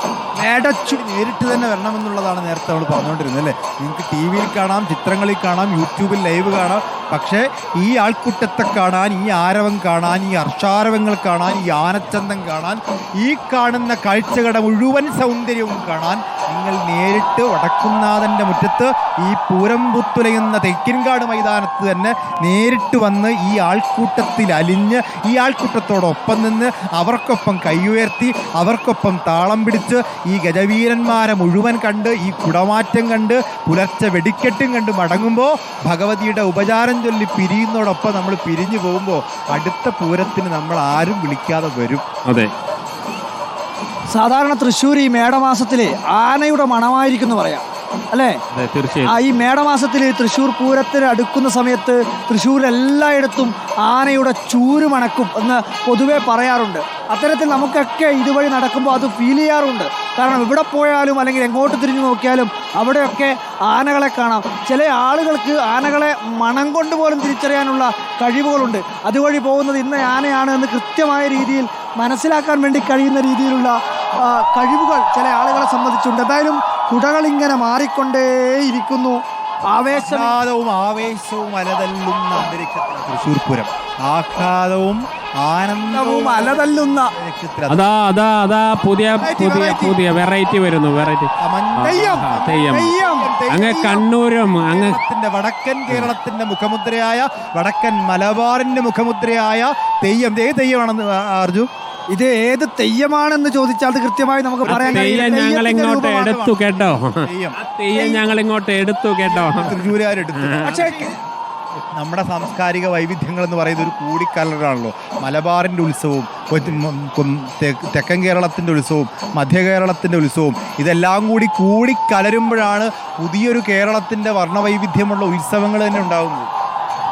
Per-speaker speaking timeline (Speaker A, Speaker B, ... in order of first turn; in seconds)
Speaker A: 0.4-1.0, 44.1-48.4, 49.0-80.4, 85.9-87.1, 91.8-93.3, 102.1-106.3, 108.0-108.2, 110.6-111.1
Speaker B: 0.8-42.0, 79.9-87.8, 89.2-90.0, 91.4-101.7, 104.6-105.3, 106.1-107.5, 109.2-111.1, 111.9-126.5
Speaker C: 42.2-42.5, 48.5-49.2, 87.7-92.9, 93.5-95.0, 104.6-109.7, 110.3-110.9